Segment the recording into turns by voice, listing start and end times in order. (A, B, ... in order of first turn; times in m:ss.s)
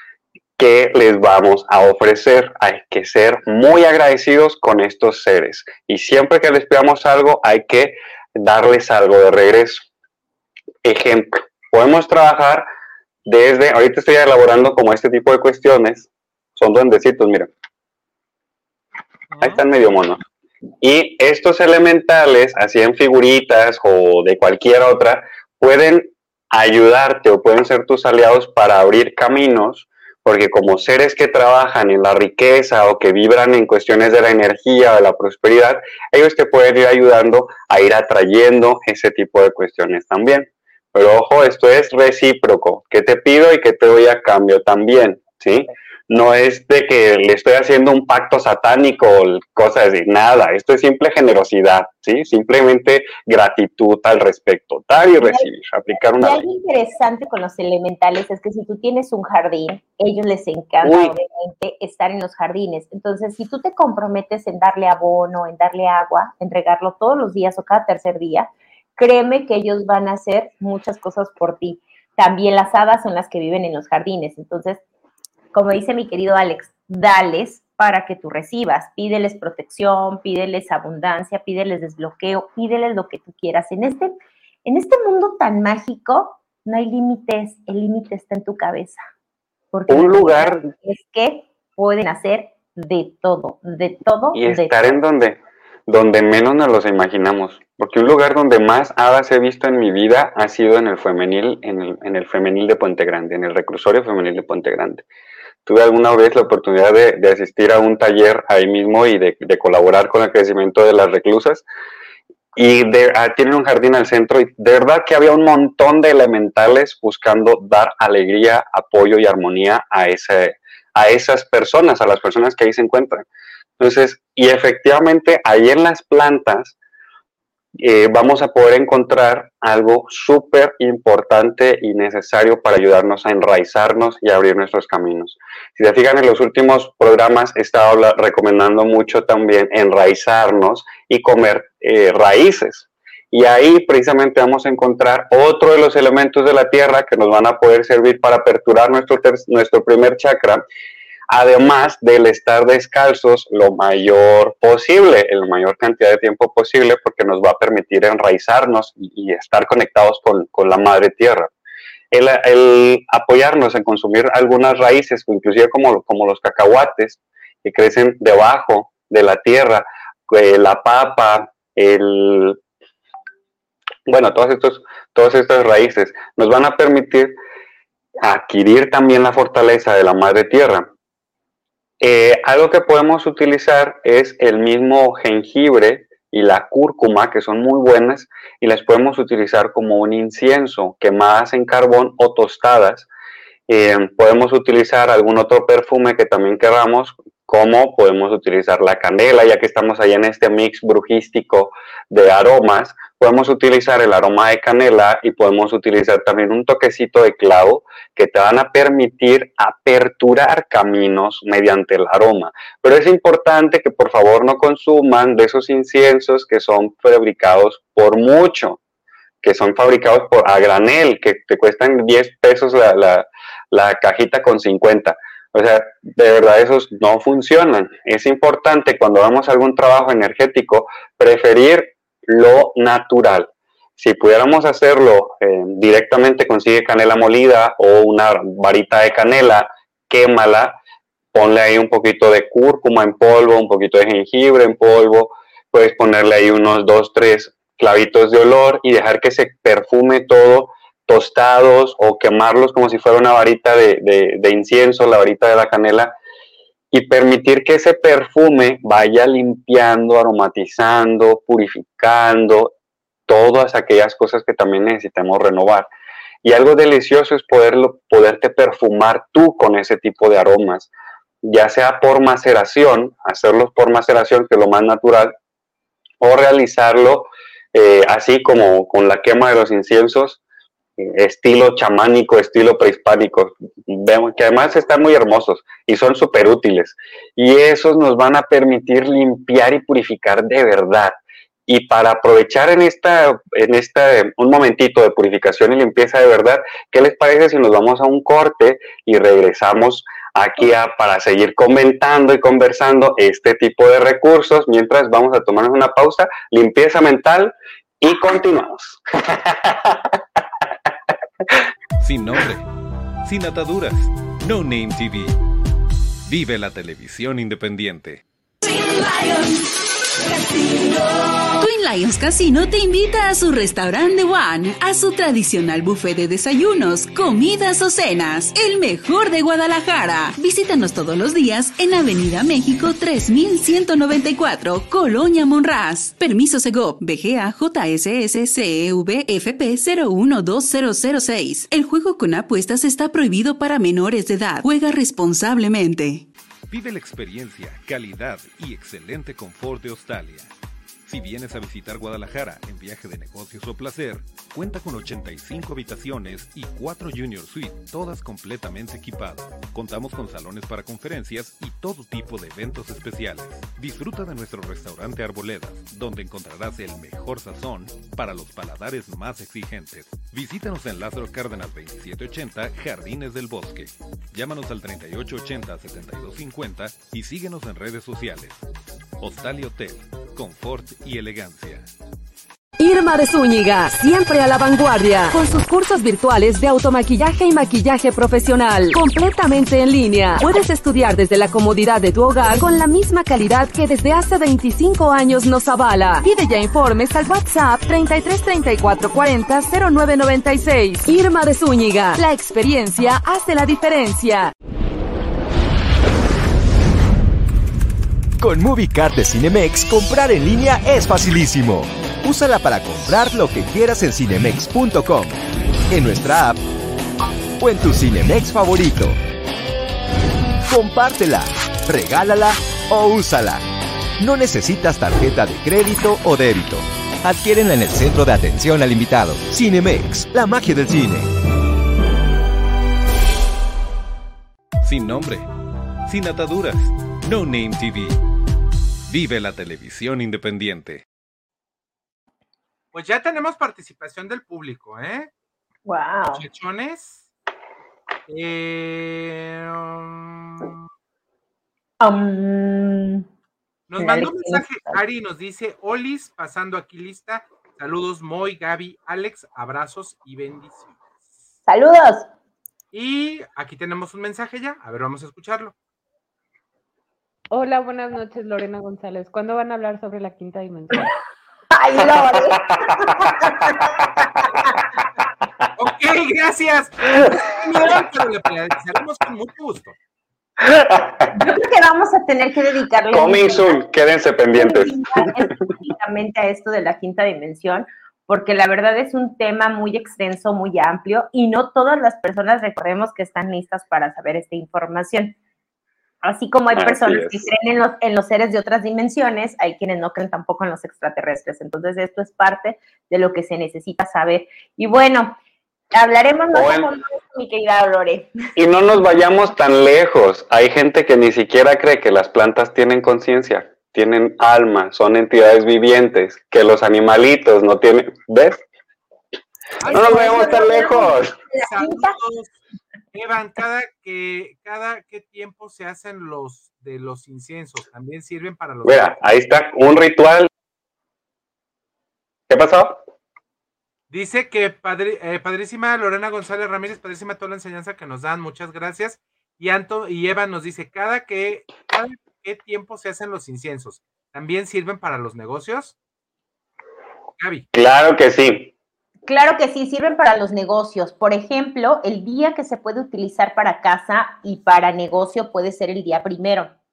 0:00.6-0:09.9 A
0:10.8-0:12.7 A
0:13.2-0:17.5 A
0:19.3-0:19.6 B
0:19.4-0:20.2 A
0:20.8-0:56.4 A
0:55.2-0:55.5 C
0:56.2-1:14.8 C
1:00.8-1:01.1 A
1:15.5-1:24.1 C
1:24.6-1:29.0 C
1:29.7-1:34.8 C
1:29.9-1:30.7 A
1:34.3-1:45.0 A
1:45.6-1:51.6 A
1:52.6-2:03.2 A
2:03.8-2:06.8 A
2:07.8-2:30.6 A
2:31.3-2:41.5 A
2:42.1-2:52.6 A
2:54.1-2:57.3 A
2:58.2-3:00.9 A
3:02.0-3:13.1 A
3:13.7-3:38.8 A
3:39.4-4:00.8 A
4:01.3-4:16.2 A
4:16.9-4:22.7 A
4:23.3-4:25.9 A
4:26.4-4:30.9 A
4:31.4-4:35.3 A
4:36.2-4:40.4 A
4:41.0-5:10.2 A
5:12.0-5:12.6 D
5:13.2-5:15.4 D
5:16.2-5:18.2 D
5:18.7-5:19.6 E
5:21.6-5:46.3 E
5:46.7-5:50.5 D
5:51.0-6:18.6 D
6:19.2-6:21.9 D
6:22.8-6:44.5 F
6:48.4-6:56.6 G
6:57.6-6:59.2 G
7:00.7-7:03.6 G
7:04.2-7:11.3 G
7:14.8-7:15.5 D
7:16.0-7:18.2 D
7:19.1-7:21.0 D
7:22.9-7:25.3 B
7:25.8-7:26.4 C
7:26.3-7:27.3 B
7:28.3-7:30.8 B
7:32.0-7:33.2 C
7:33.9-7:41.4 B
7:34.0-7:35.0 C
7:41.7-7:42.3 C
7:42.9-7:45.7 B
7:47.5-7:51.1 H
7:51.7-7:53.7 C
7:52.5-7:53.0 A
7:55.8-8:00.0 B
8:00.6-8:01.3 A
8:01.3-8:03.8 C
8:03.1-8:05.0 A
8:04.5-8:15.4 C
8:16.2-8:25.4 C
8:16.7-8:17.5 A
8:25.9-8:28.4 C
8:26.5-8:26.9 A
8:28.6-8:38.6 A
8:39.8-8:40.9 B
8:39.8-8:42.2 C
8:39.9-8:41.4 A
8:41.6-8:42.6 B
8:43.1-8:49.2 B
8:48.8-8:50.5 A
8:52.5-8:53.0 A
8:54.1-9:06.0 B
9:07.4-9:07.6 B
9:07.7-9:08.7 A
9:09.3-9:16.7 C